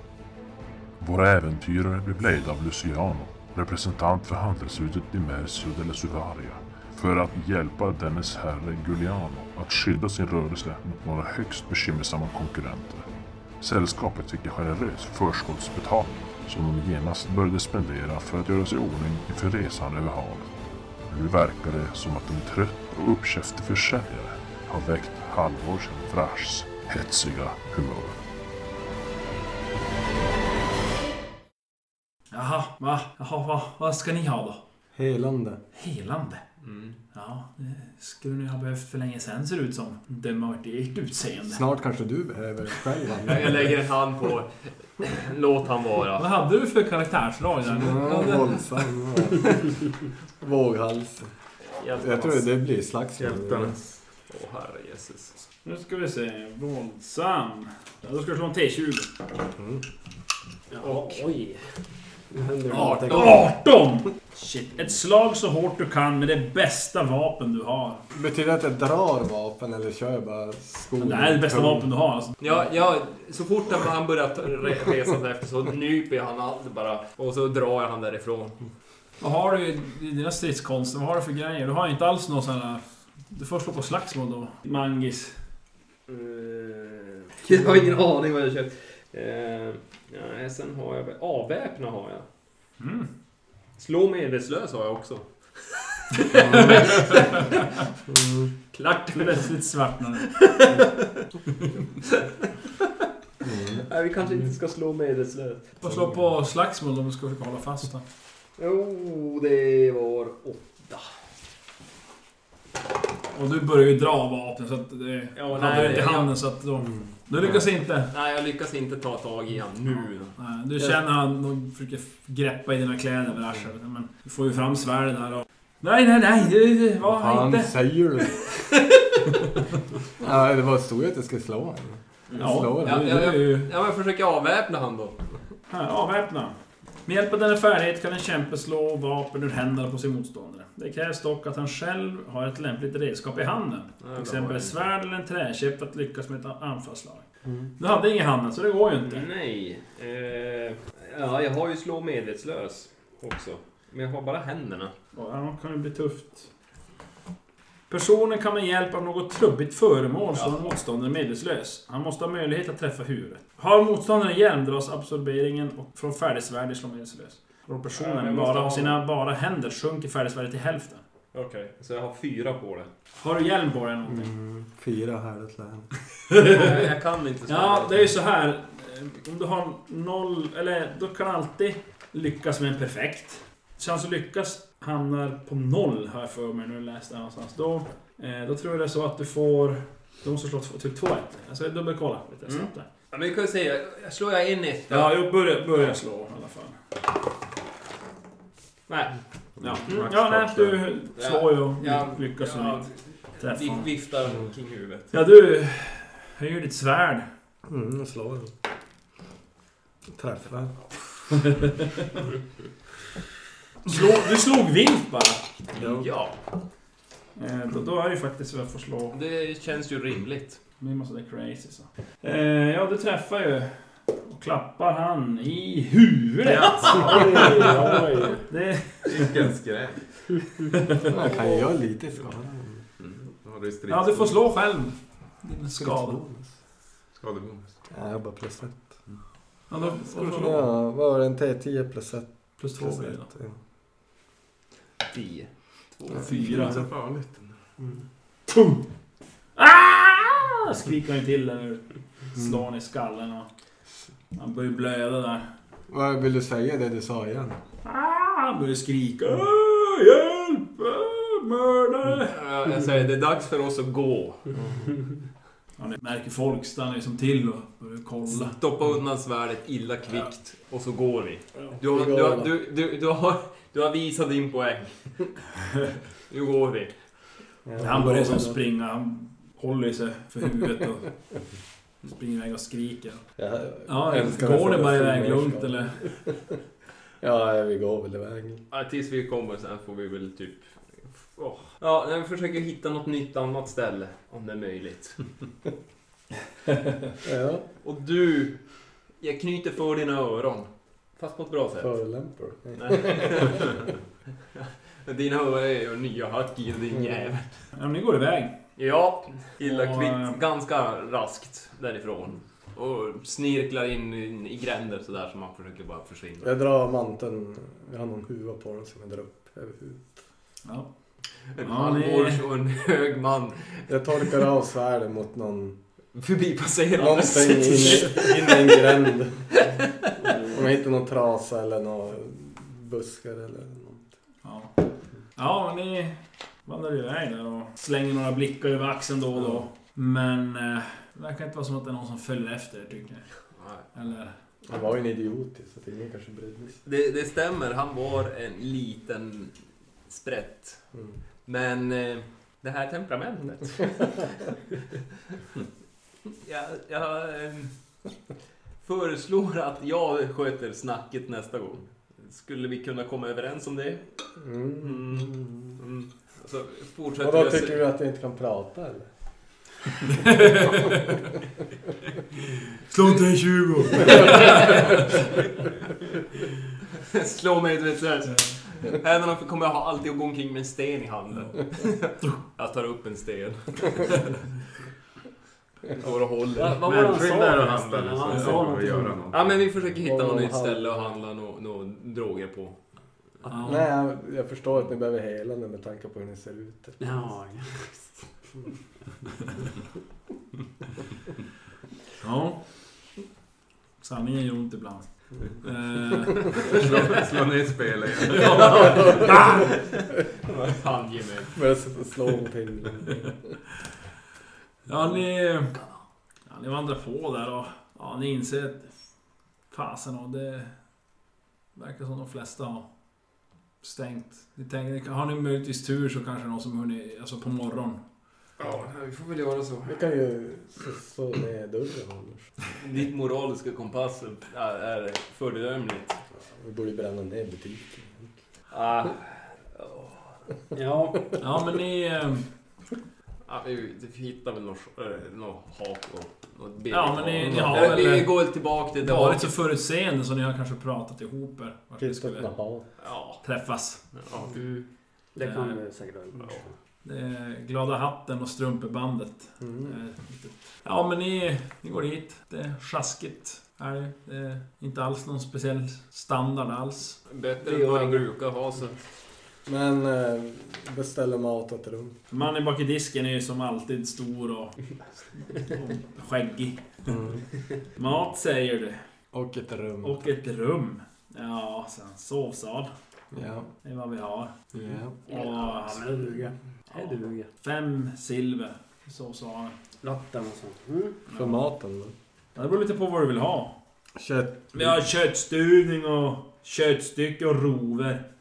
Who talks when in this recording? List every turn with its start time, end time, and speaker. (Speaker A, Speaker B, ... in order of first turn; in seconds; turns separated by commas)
Speaker A: 1.0-13.1, Speaker A: 13.6-20.5, Speaker A: 21.1-28.2, Speaker B: 32.3-34.6, Speaker C: 35.0-35.6, Speaker B: 35.7-36.4, Speaker D: 36.6-37.0, Speaker B: 37.1-41.6, Speaker C: 41.5-43.6, Speaker D: 43.2-46.2, Speaker B: 46.2-48.5, Speaker C: 47.7-49.6, Speaker C: 50.4-51.3, Speaker D: 51.8-52.5, Speaker C: 52.0-53.8, Speaker E: 53.2-54.0, Speaker D: 54.3-55.5, Speaker B: 55.6-59.1, Speaker F: 60.7-61.6, Speaker D: 60.8-61.2, Speaker F: 62.3-63.4, Speaker D: 62.7-63.4, Speaker B: 63.1-68.0, Speaker C: 68.1-71.9, Speaker B: 71.0-72.7, Speaker D: 72.4-78.6, Speaker B: 79.2-85.4, Speaker D: 86.1-92.3, Speaker B: 92.8-93.1, Speaker D: 93.8-97.6, Speaker C: 96.3-97.1, Speaker B: 96.4-97.5, Speaker C: 98.1-98.5, Speaker D: 98.7-99.5, Speaker B: 99.1-100.3, Speaker D: 100.2-101.1, Speaker D: 102.0-102.3, Speaker C: 103.4-103.8, Speaker D: 103.8-105.7, Speaker B: 105.8-108.0, Speaker C: 105.9-106.1, Speaker D: 108.6-111.1, Speaker B: 113.3-118.1, Speaker D: 115.4-116.3, Speaker C: 116.9-117.6, Speaker D: 118.1-120.3, Speaker B: 120.4-127.7, Speaker C: 127.0-128.5, Speaker C: 130.2-133.2, Speaker D: 132.3-135.2, Speaker B: 132.4-133.7, Speaker B: 135.7-147.3, Speaker D: 144.0-144.8, Speaker C: 147.4-147.7, Speaker B: 147.8-149.3, Speaker D: 149.1-154.9, Speaker B: 155.1-156.5, Speaker B: 157.9-171.0, Speaker D: 160.3-160.8, Speaker D: 167.9-169.0, Speaker D: 171.3-172.9, Speaker B: 173.2-174.3, Speaker C: 174.1-175.9, Speaker B: 176.3-176.8, Speaker D: 176.4-178.1, Speaker B: 177.5-192.9, Speaker D: 192.5-195.2, Speaker B: 194.9-196.8, Speaker D: 198.9-199.2, Speaker B: 199.6-202.8, Speaker E: 199.6-200.8, Speaker D: 201.2-205.2, Speaker B: 203.4-203.9, Speaker B: 205.1-207.3, Speaker C: 207.7-208.5, Speaker C: 210.1-210.8, Speaker B: 211.5-212.2, Speaker B: 213.8-215.5, Speaker D: 215.8-216.4, Speaker C: 215.8-216.0, Speaker B: 217.4-219.2, Speaker D: 219.1-220.6, Speaker B: 220.8-227.7, Speaker F: 226.7-228.5, Speaker B: 228.5-229.3, Speaker E: 229.0-230.1, Speaker B: 230.7-231.1, Speaker C: 231.1-232.8, Speaker F: 231.3-231.6, Speaker E: 233.0-234.4, Speaker B: 233.9-236.2, Speaker C: 235.8-236.5, Speaker E: 237.2-237.8, Speaker C: 237.9-238.9, Speaker B: 239.7-240.7, Speaker D: 239.9-240.6, Speaker C: 240.3-243.6, Speaker B: 242.6-243.3, Speaker D: 245.1-246.7, Speaker B: 246.2-246.8, Speaker E: 246.4-247.6, Speaker C: 246.5-246.9, Speaker B: 248.5-248.8, Speaker B: 249.6-253.5, Speaker B: 254.3-255.5, Speaker C: 255.9-257.6, Speaker B: 257.8-262.4, Speaker D: 262.3-264.5, Speaker C: 264.6-264.9, Speaker B: 265.8-268.6, Speaker D: 268.3-275.3, Speaker C: 271.8-272.5, Speaker D: 276.3-277.0, Speaker C: 277.6-278.6, Speaker B: 277.8-281.1, Speaker B: 282.1-283.2, Speaker C: 283.4-286.4, Speaker B: 283.9-286.0, Speaker C: 287.2-288.6, Speaker D: 288.7-295.2, Speaker C: 297.2-297.7, Speaker D: 297.8-298.6, Speaker D: 299.2-301.9, Speaker C: 301.8-303.8, Speaker D: 302.8-303.8, Speaker D: 304.5-307.7, Speaker B: 307.7-308.6, Speaker D: 308.8-316.5, Speaker B: 309.6-310.4, Speaker C: 316.4-320.1, Speaker B: 320.6-320.9, Speaker D: 321.5-323.9, Speaker B: 321.6-322.4, Speaker C: 323.9-325.8, Speaker D: 326.1-329.0, Speaker C: 326.9-329.5, Speaker D: 329.5-330.4, Speaker F: 330.2-330.5, Speaker C: 330.4-334.1, Speaker B: 334.4-334.8, Speaker B: 335.4-343.3, Speaker D: 343.6-343.9, Speaker B: 343.9-344.4, Speaker C: 344.7-346.8, Speaker D: 346.9-349.6, Speaker D: 350.1-350.9, Speaker D: 351.5-354.5, Speaker D: 356.4-357.7, Speaker D: 358.8-364.1, Speaker C: 364.4-365.8, Speaker D: 364.8-367.8, Speaker C: 367.2-369.1, Speaker B: 370.1-371.0, Speaker B: 372.9-375.1, Speaker D: 374.2-374.8, Speaker D: 377.0-384.3, Speaker D: 385.9-388.6, Speaker F: 386.6-389.2, Speaker E: 386.7-389.7, Speaker D: 389.3-392.8, Speaker C: 390.0-391.1, Speaker B: 393.5-393.9, Speaker C: 393.6-397.0, Speaker F: 397.0-398.2, Speaker B: 402.2-402.6, Speaker B: 404.0-405.1, Speaker B: 405.6-406.7, Speaker E: 406.6-409.2, Speaker B: 408.3-409.6, Speaker D: 408.3-411.6, Speaker C: 411.6-413.6, Speaker B: 414.9-415.8, Speaker B: 416.5-418.9, Speaker B: 419.7-420.7, Speaker B: 421.8-422.9, Speaker B: 423.8-428.0, Speaker D: 428.6-430.0, Speaker C: 429.9-432.5, Speaker D: 432.8-436.2, Speaker C: 436.5-438.3, Speaker D: 438.7-440.2, Speaker F: 440.7-441.3, Speaker B: 441.4-442.4, Speaker D: 443.5-449.6, Speaker B: 446.9-452.5, Speaker C: 447.4-448.0, Speaker C: 452.0-452.9, Speaker D: 453.0-453.4, Speaker B: 453.4-454.0, Speaker D: 454.2-454.6, Speaker F: 454.5-456.7, Speaker B: 455.4-455.8, Speaker B: 457.1-467.2, Speaker C: 459.6-459.9, Speaker D: 467.3-469.0, Speaker F: 467.6-468.3, Speaker C: 469.7-472.2, Speaker B: 472.3-474.8, Speaker B: 475.4-476.8, Speaker C: 477.1-477.4, Speaker B: 478.0-479.0, Speaker C: 479.3-480.3, Speaker B: 480.0-482.9, Speaker C: 483.3-483.7, Speaker B: 483.8-484.6, Speaker C: 484.7-485.2, Speaker B: 485.3-486.1, Speaker F: 485.3-487.5, Speaker B: 486.9-489.8, Speaker F: 490.0-491.2, Speaker B: 491.3-491.6, Speaker C: 491.3-492.1, Speaker B: 492.6-493.8, Speaker C: 494.2-495.0, Speaker B: 494.7-498.2